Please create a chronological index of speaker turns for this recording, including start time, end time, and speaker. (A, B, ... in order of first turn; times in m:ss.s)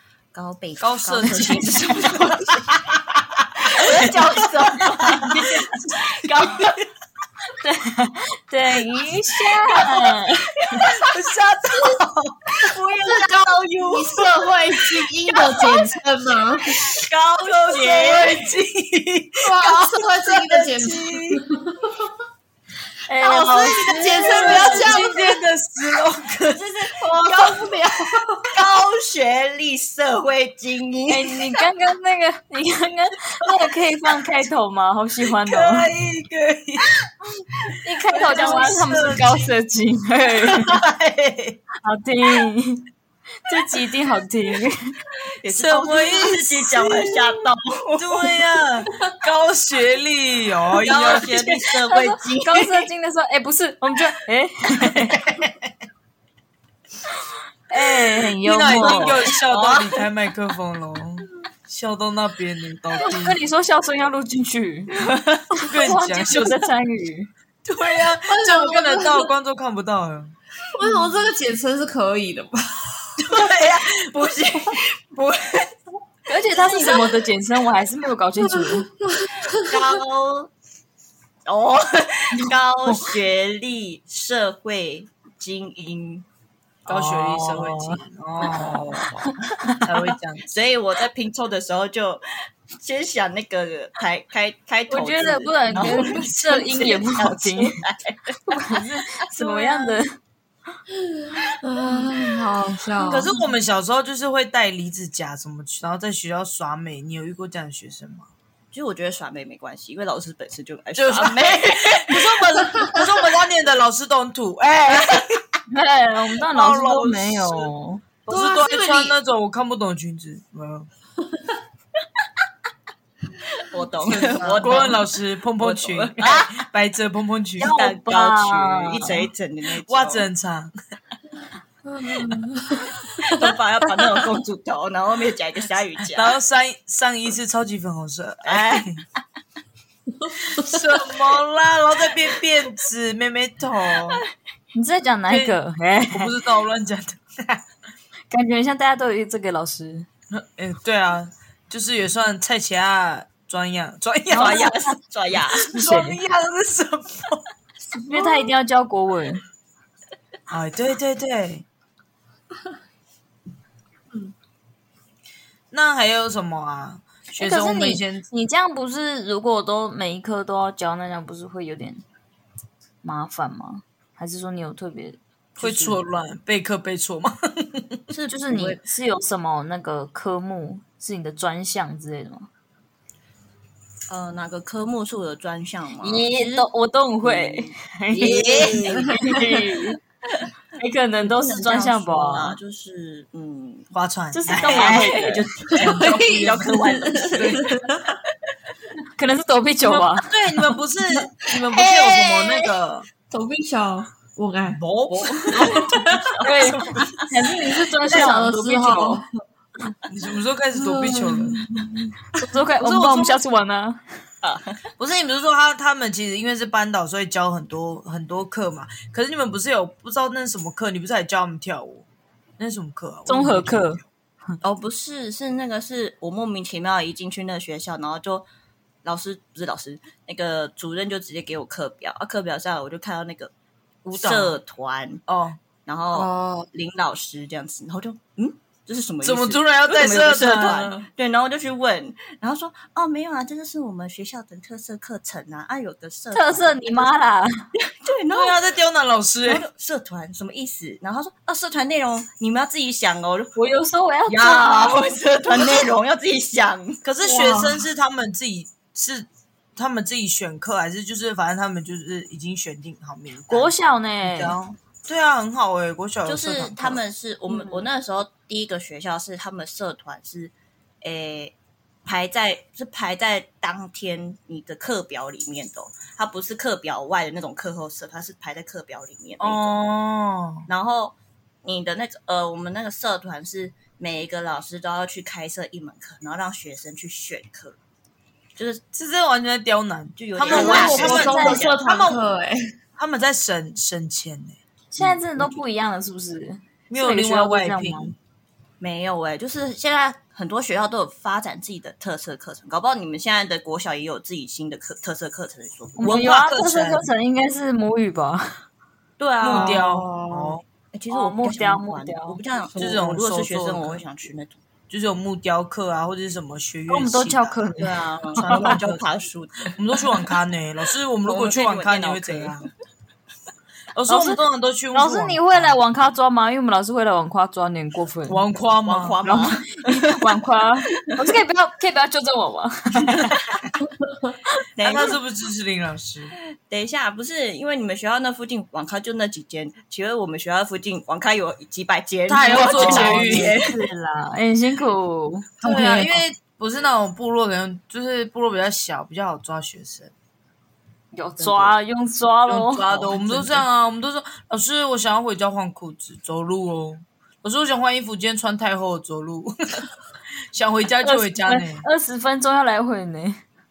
0:00.3-0:02.7 A
0:00.8-0:04.3 B
0:03.6-0:06.8 A
0:05.0-0:06.8 B
0:07.6-0:10.7 C
0:10.6-0:11.0 A
0:10.8-0:12.7 B
0:12.6-0:14.5 A
0:13.0-0:16.8 D
0:15.3-0:15.7 A
0:16.8-0:18.4 A
0:17.7-0:21.4 B
0:19.4-0:22.1 D
0:23.1-0:24.7 C
0:23.2-0:25.2 A
0:23.3-0:25.3 D
0:24.2-0:26.6 B
0:26.5-0:27.8 A
0:27.2-0:28.5 D
0:28.4-0:31.5 A
0:31.1-0:35.9 C
0:35.4-0:36.9 B
0:37.8-0:40.8 C
0:38.1-0:39.5 B
0:40.5-0:41.6 B
0:41.8-0:42.9 C
0:43.5-0:44.9 C
0:45.4-0:48.4 A
0:45.5-0:47.2 B
0:48.0-0:51.5 B
0:50.8-0:52.9 A
0:51.9-0:55.2 C
0:54.8-0:55.6 B
0:57.7-0:59.3 C
0:57.8-1:03.4 B
0:58.8-1:00.0 A
1:03.0-1:05.0 C
1:05.0-1:06.7 B
1:05.6-1:07.3 C
1:07.6-1:10.3 B
1:08.3-1:09.3 D
1:10.7-1:13.0 D
1:13.2-1:14.0 B
1:13.3-1:15.6 A
1:16.3-1:18.9 C
1:16.5-1:17.2 A
1:18.4-1:20.0 D
1:19.5-1:20.5 A
1:21.5-1:26.3 A
1:26.9-1:29.2 B
1:26.9-1:30.1 C
1:29.8-1:30.5 B
1:30.5-1:32.2 A
1:32.8-1:38.4 A
1:34.9-1:37.8 C
1:35.7-1:36.2 B
1:38.5-1:40.2 C
1:39.4-1:39.9 B
1:41.1-1:43.3 D
1:43.0-1:48.3 B
1:48.7-1:52.4 A
1:51.0-1:55.4 B
1:52.7-1:53.0 D
1:55.7-1:58.0 C
1:56.5-1:57.7 B
1:58.3-2:00.9 B
1:58.3-1:59.2 D
2:03.5-2:06.6 A
2:04.1-2:07.7 B
2:07.6-2:10.3 A
2:07.6-2:09.3 C
2:09.8-2:10.7 B
2:11.8-2:14.2 D
2:13.2-2:16.4 A
2:16.1-2:19.0 B
2:18.4-2:18.9 A
2:20.2-2:20.8 D
2:20.4-2:24.2 B
2:24.8-2:26.4 C
2:25.3-2:25.6 B
2:26.1-2:27.6 B
2:28.3-2:30.1 C
2:30.3-2:34.8 B
2:34.3-2:35.7 A
2:34.4-2:34.8 C
2:35.6-2:37.4 B
2:35.7-2:36.2 C
2:37.9-2:38.5 D
2:38.0-2:39.4 C
2:40.5-2:41.6 B
2:45.7-2:48.2 B
2:47.4-2:52.0 C
2:53.0-2:56.0 C
2:55.6-2:58.0 B
2:58.1-2:58.8 A
2:58.3-3:02.5 C
3:04.1-3:06.7 A
3:06.0-3:10.0 C
3:07.2-3:09.4 A
3:08.2-3:09.1 B
3:09.0-3:09.6 D
3:10.8-3:12.6 C
3:11.2-3:13.9 A
3:13.9-3:16.8 B
3:14.3-3:15.5 C
3:14.5-3:17.6 A
3:15.7-3:18.2 D
3:17.3-3:17.8 B
3:19.2-3:20.3 C
3:19.8-3:23.1 B
3:21.8-3:22.7 A
3:23.3-3:24.8 D
3:24.7-3:27.1 B
3:25.1-3:27.3 A
3:25.5-3:26.4 D
3:26.4-3:29.2 C
3:27.7-3:29.3 D
3:30.1-3:31.6 B
3:30.7-3:32.0 D
3:32.4-3:34.0 C
3:32.8-3:33.4 B
3:34.4-3:34.8 A
3:35.0-3:42.1 B
3:42.6-3:44.0 B
3:43.3-3:44.0 C
3:44.6-3:48.5 A
3:49.0-3:53.5 A
3:54.0-3:54.6 B
3:54.1-3:55.2 A
3:55.3-3:55.6 B
3:55.8-4:07.1 A
3:56.2-3:56.7 D
3:59.2-4:01.0 B
4:06.3-4:07.5 C
4:07.8-4:08.6 A
4:08.3-4:09.6 B
4:09.4-4:13.6 A
4:13.6-4:15.1 C
4:14.3-4:17.0 A
4:17.0-4:27.0 B
4:17.2-4:17.9 D
4:23.5-4:24.6 C
4:26.2-4:31.5 A
4:32.1-4:39.7 A
4:39.4-4:40.7 B
4:40.7-4:47.8 A
4:48.6-4:48.8 A
4:48.9-4:52.3 B
4:50.2-4:51.8 A
4:50.5-4:52.7 D
4:50.5-4:51.7 C
4:53.0-4:55.1 B
4:54.9-4:58.1 C
4:55.0-4:55.6 A
4:56.9-4:58.2 B
4:58.8-5:06.3 A
5:06.0-5:08.6 C
5:06.0-5:07.1 B
5:09.2-5:09.8 A
5:09.4-5:10.6 B
5:09.5-5:10.6 D
5:10.9-5:14.6 A
5:11.1-5:12.4 C
5:12.8-5:14.0 B
5:14.9-5:19.0 B
5:16.9-5:18.8 C
5:17.8-5:19.7 A
5:19.7-5:22.7 B
5:21.2-5:22.7 A
5:24.0-5:25.8 B
5:24.1-5:24.4 C
5:24.9-5:28.4 C
5:28.3-5:29.2 B
5:28.8-5:30.4 A
5:29.2-5:33.3 C
5:33.0-5:33.4 B
5:34.8-5:35.2 A
5:34.8-5:36.4 B
5:36.7-5:43.8 A
5:42.3-5:43.6 B
5:42.4-5:46.2 C
5:45.6-5:50.1 B
5:51.1-5:53.5 C
5:51.4-5:51.8 A
5:52.5-5:59.9 B
5:53.0-5:53.5 A
6:00.5-6:01.9 B
6:01.0-6:03.4 C